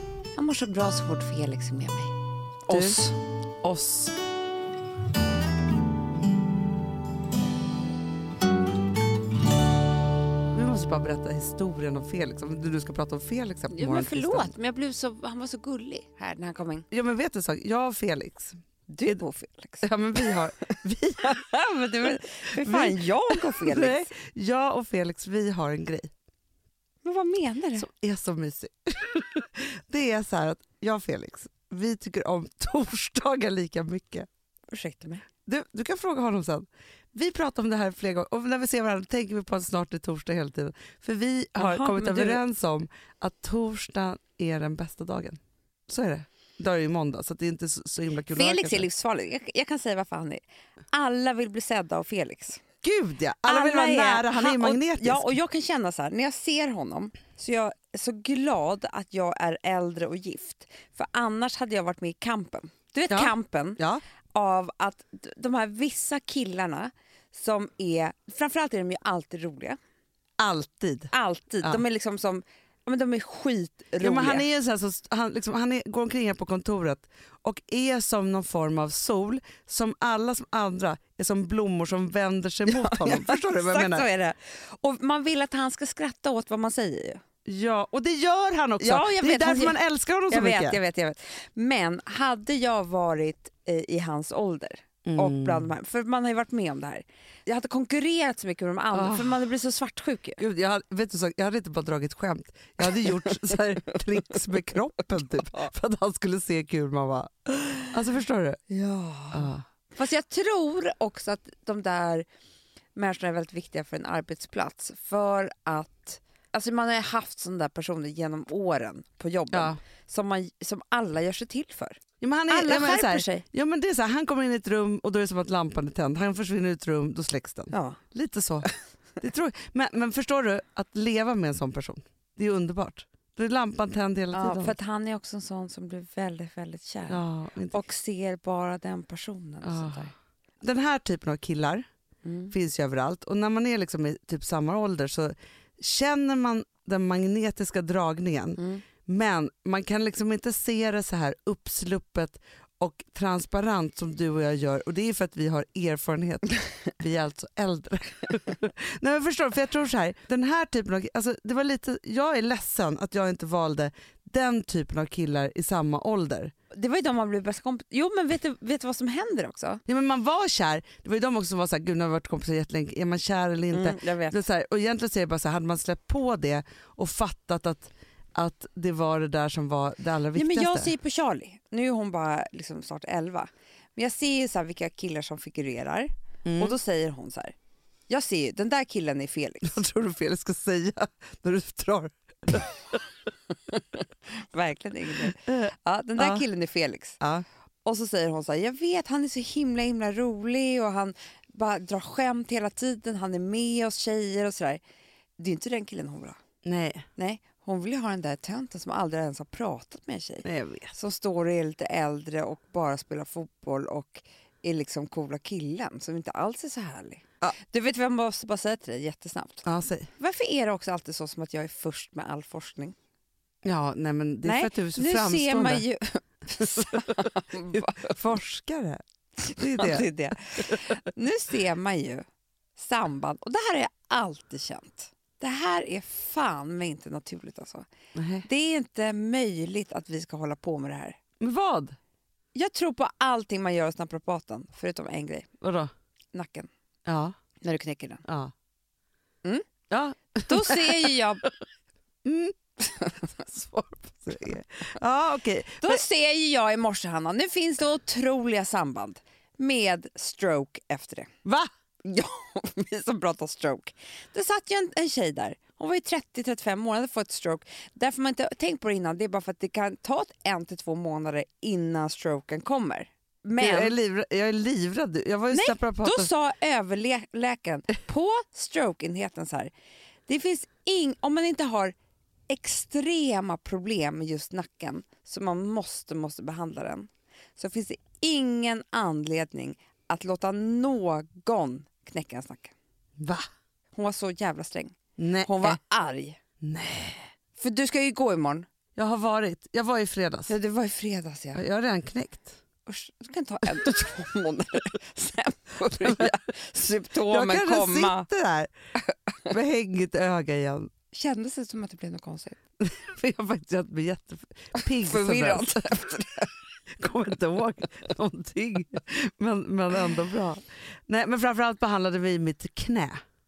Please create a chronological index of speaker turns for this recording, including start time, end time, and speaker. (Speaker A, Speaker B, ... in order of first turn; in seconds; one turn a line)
Speaker A: 0.4-2.1
Speaker A: 2.7-3.2
Speaker B: 2.7-3.0
Speaker B: 3.6-4.2
Speaker B: 10.5-14.5
Speaker A: 13.7-16.9
Speaker B: 16.9-18.6
Speaker A: 18.9-24.1
Speaker B: 19.8-21.4
Speaker B: 22.6-26.1
Speaker A: 27.0-27.9
Speaker B: 27.8-34.3
Speaker A: 34.7-35.2
Speaker B: 35.5-48.9
Speaker A: 41.6-42.4
Speaker A: 48.3-52.6
Speaker B: 52.8-55.4
Speaker A: 53.5-63.8
Speaker B: 63.1-64.0
Speaker A: 64.3-69.8
Speaker B: 70.4-71.8
Speaker A: 71.1-74.5
Speaker B: 74.0-84.1
Speaker A: 82.7-87.2
Speaker B: 87.5-90.8
Speaker A: 88.8-89.8
Speaker A: 90.3-100.4
Speaker B: 95.1-95.7
Speaker B: 98.9-99.4
Speaker B: 100.4-108.7
Speaker A: 103.0-103.6
Speaker A: 108.7-112.3
Speaker B: 109.3-109.6
Speaker A: 113.0-123.5
Speaker B: 119.5-119.8
Speaker B: 122.2-134.8
Speaker A: 127.7-128.0
Speaker A: 134.3-140.1
Speaker B: 137.1-137.8
Speaker B: 139.6-140.1
Speaker B: 140.6-141.9
Speaker A: 142.2-142.5
Speaker B: 142.5-166.5
Speaker A: 148.6-148.8
Speaker A: 166.7-169.8
Speaker B: 169.9-180.9
Speaker A: 173.7-174.4
Speaker A: 180.3-187.6
Speaker B: 186.5-186.8
Speaker A: 188.1-189.8
Speaker B: 189.6-193.1
Speaker A: 193.7-197.2
Speaker B: 195.4-196.4
Speaker B: 197.2-197.4
Speaker A: 197.8-204.8
Speaker A: 205.4-206.4
Speaker B: 206.6-207.1
Speaker A: 207.2-219.7
Speaker B: 210.4-211.0
Speaker B: 219.6-220.1
Speaker A: 220.2-222.9
Speaker B: 223.6-225.9
Speaker A: 224.4-228.2
Speaker B: 227.7-230.1
Speaker A: 229.5-232.2
Speaker A: 232.8-237.9
Speaker B: 238.2-238.5
Speaker A: 238.4-241.2
Speaker B: 241.4-242.0
Speaker A: 242.5-245.5
Speaker B: 245.6-245.9
Speaker A: 246.3-246.7
Speaker B: 247.1-247.3
Speaker A: 247.6-248.2
Speaker B: 248.3-248.5
Speaker B: 249.9-251.2
Speaker A: 250.4-251.5
Speaker B: 252.2-256.0
Speaker A: 253.0-253.3
Speaker A: 255.8-261.3
Speaker A: 262.0-274.0
Speaker B: 273.6-276.3
Speaker A: 275.5-279.7
Speaker A: 280.3-281.9
Speaker A: 282.5-292.7
Speaker B: 293.2-293.5
Speaker A: 293.9-296.4
Speaker B: 295.2-295.8
Speaker B: 296.6-297.3
Speaker A: 297.6-298.7
Speaker B: 299.0-300.5
Speaker A: 300.5-301.6
Speaker B: 301.6-302.6
Speaker A: 302.9-308.3
Speaker B: 307.3-308.7
Speaker B: 309.5-310.9
Speaker A: 311.1-312.6
Speaker B: 312.8-316.0
Speaker A: 315.0-316.5
Speaker B: 317.0-323.2